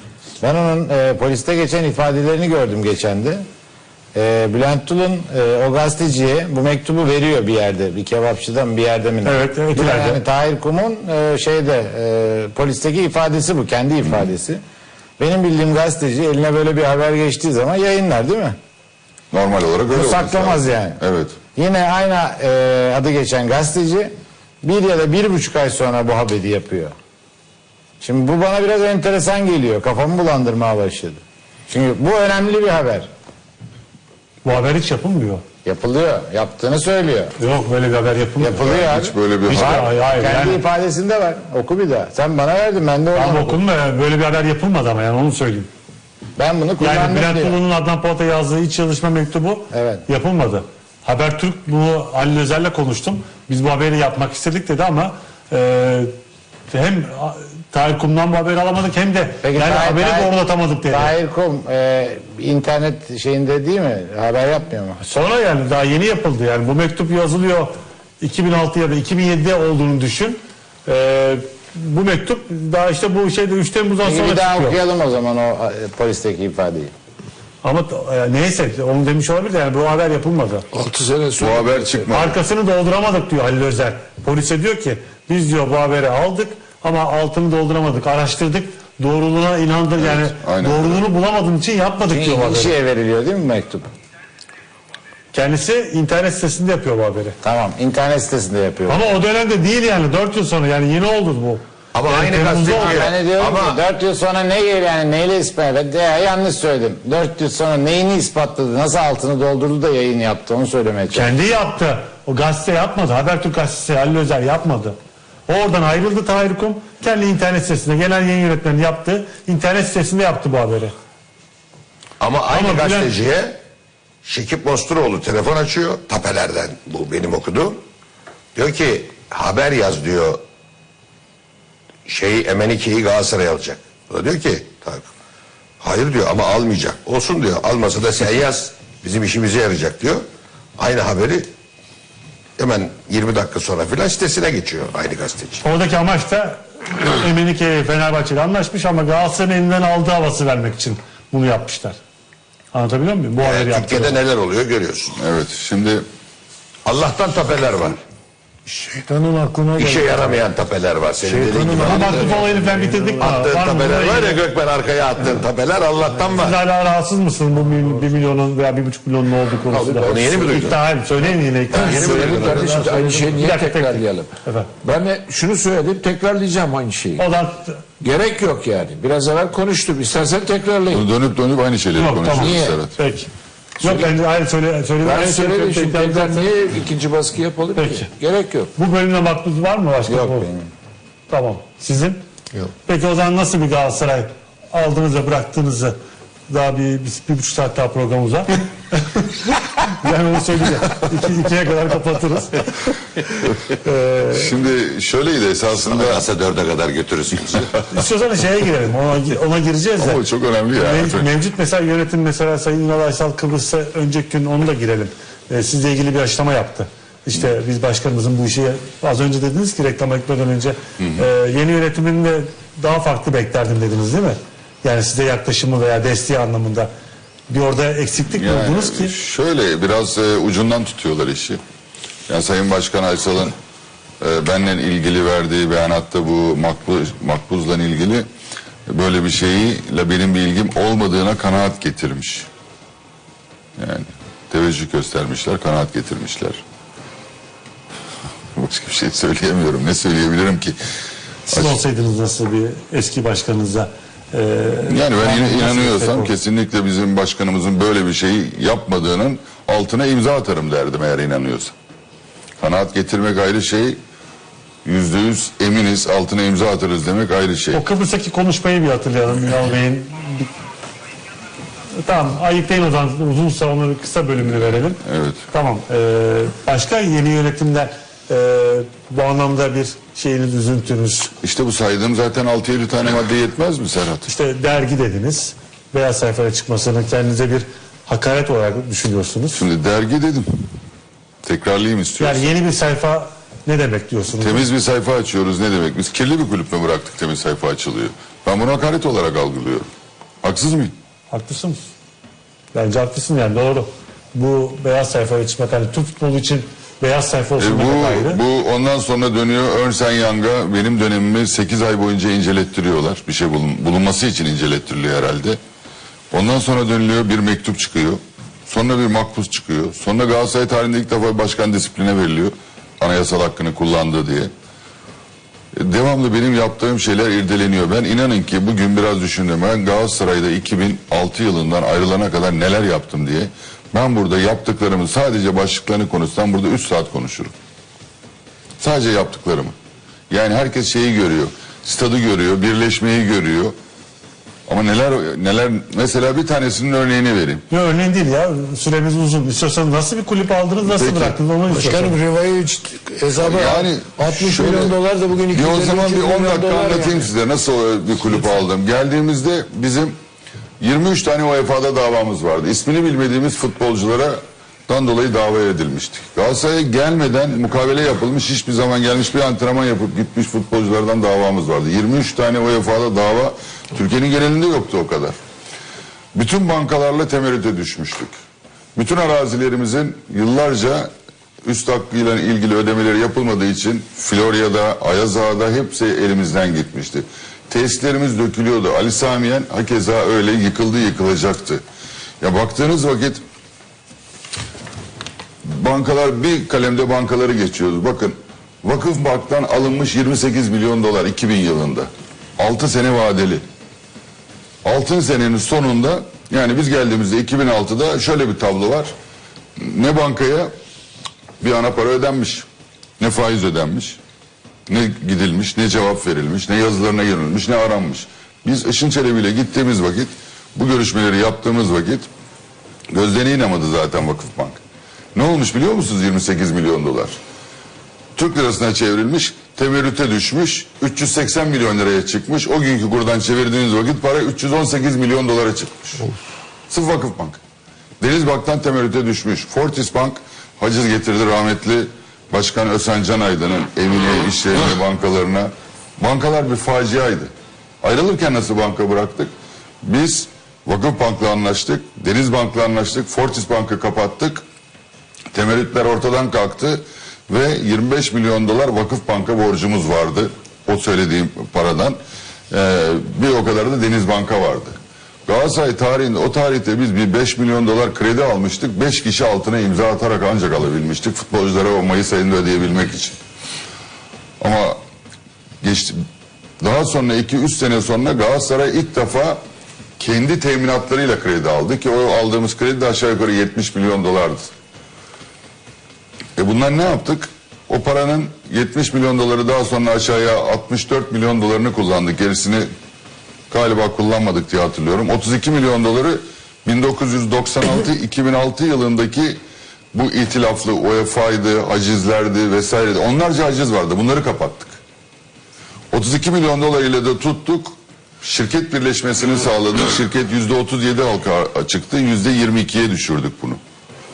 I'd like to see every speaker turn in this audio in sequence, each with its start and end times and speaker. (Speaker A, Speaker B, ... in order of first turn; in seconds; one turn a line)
Speaker A: 0.4-3.4
Speaker A: 4.1-14.6
Speaker B: 9.2-10.2
Speaker A: 15.2-18.6
Speaker C: 19.3-21.4
Speaker A: 19.9-21.0
Speaker A: 21.6-26.9
Speaker A: 28.0-33.1
Speaker B: 34.4-35.4
Speaker A: 35.6-37.3
Speaker B: 37.4-38.7
Speaker A: 38.4-43.6
Speaker C: 38.6-39.9
Speaker B: 39.5-40.6
Speaker B: 43.1-45.7
Speaker A: 46.4-47.6
Speaker B: 46.8-56.1
Speaker A: 49.7-50.0
Speaker B: 56.7-61.1
Speaker A: 59.4-60.3
Speaker A: 60.9-65.0
Speaker B: 65.0-74.8
Speaker A: 74.0-76.9
Speaker B: 77.6-80.6
Speaker D: 80.7-82.1
Speaker C: 81.4-82.3
Speaker B: 82.1-92.7
Speaker C: 90.0-91.0
Speaker A: 92.1-93.9
Speaker B: 95.3-97.4
Speaker A: 97.4-99.1
Speaker B: 98.9-103.1
Speaker E: 101.9-103.8
Speaker A: 102.7-111.3
Speaker B: 111.1-115.0
Speaker B: 115.5-120.9
Speaker E: 122.2-123.6
Speaker B: 122.5-123.1
Speaker E: 124.2-127.8
Speaker E: 128.5-130.4
Speaker E: 132.1-135.1
Speaker E: 135.8-140.2
Speaker E: 140.8-141.5
Speaker E: 142.6-145.6
Speaker B: 145.6-152.0
Speaker B: 152.7-154.2
Speaker E: 153.4-155.2
Speaker C: 155.2-156.0
Speaker E: 156.8-158.0
Speaker B: 158.9-160.3
Speaker E: 159.8-162.4
Speaker B: 161.3-164.4
Speaker D: 161.5-162.1
Speaker E: 163.2-166.6
Speaker B: 166.2-174.7
Speaker E: 169.7-170.8
Speaker D: 169.8-170.6
Speaker E: 171.7-172.9
Speaker D: 171.7-177.2
Speaker B: 177.2-177.8
Speaker D: 178.0-181.0
Speaker C: 180.9-182.9
Speaker B: 181.9-183.3
Speaker D: 182.3-182.8
Speaker B: 183.8-186.4
Speaker D: 183.8-184.1
Speaker D: 185.0-188.7
Speaker B: 187.8-188.1
Speaker B: 188.8-190.5
Speaker A: 190.1-190.7
Speaker B: 191.3-192.2
Speaker B: 192.8-195.9
Speaker B: 196.5-202.8
Speaker B: 203.5-204.5
Speaker C: 204.3-206.2
Speaker E: 205.7-207.7
Speaker B: 207.9-226.9
Speaker C: 210.0-211.3
Speaker C: 221.0-221.2
Speaker B: 227.5-229.2
Speaker C: 228.3-231.6
Speaker C: 232.3-233.5
Speaker C: 234.2-238.3
Speaker C: 238.9-242.5
Speaker C: 243.8-246.6
Speaker C: 248.6-250.8
Speaker B: 251.5-256.3
Speaker C: 251.5-251.8
Speaker C: 254.8-261.7
Speaker C: 262.6-264.0
Speaker C: 264.8-267.8
Speaker B: 267.7-270.5
Speaker B: 272.0-281.3
Speaker C: 275.0-275.4
Speaker C: 281.4-284.3
Speaker B: 284.2-289.6
Speaker C: 289.5-290.5
Speaker C: 291.4-292.5
Speaker B: 292.2-294.7
Speaker C: 294.4-299.9
Speaker C: 300.4-300.9
Speaker B: 301.3-301.9
Speaker B: 302.7-308.4
Speaker C: 307.6-315.6
Speaker C: 316.3-324.5
Speaker C: 325.8-337.5
Speaker C: 338.8-339.7
Speaker C: 340.3-343.7
Speaker C: 344.7-347.6
Speaker B: 347.7-352.2
Speaker C: 350.8-351.4
Speaker D: 351.7-357.2
Speaker C: 353.4-355.0
Speaker C: 355.5-360.1
Speaker C: 360.8-375.4
Speaker C: 376.3-378.3
Speaker C: 378.9-381.1
Speaker C: 381.6-391.8
Speaker C: 392.4-393.4
Speaker C: 395.6-403.6
Speaker C: 404.8-409.1
Speaker C: 409.8-410.7
Speaker C: 411.6-412.7
Speaker C: 413.2-414.2
Speaker C: 414.9-422.3
Speaker C: 423.1-424.8
Speaker C: 425.3-427.4
Speaker C: 428.4-436.1
Speaker C: 436.9-437.6
Speaker C: 438.2-454.6
Speaker C: 455.5-462.2
Speaker C: 462.7-473.4
Speaker C: 474.6-475.0
Speaker C: 475.8-476.2
Speaker C: 476.8-479.6
Speaker C: 480.2-484.7
Speaker C: 486.6-492.9
Speaker C: 493.7-499.6
Speaker C: 500.1-505.0
Speaker C: 506.1-513.8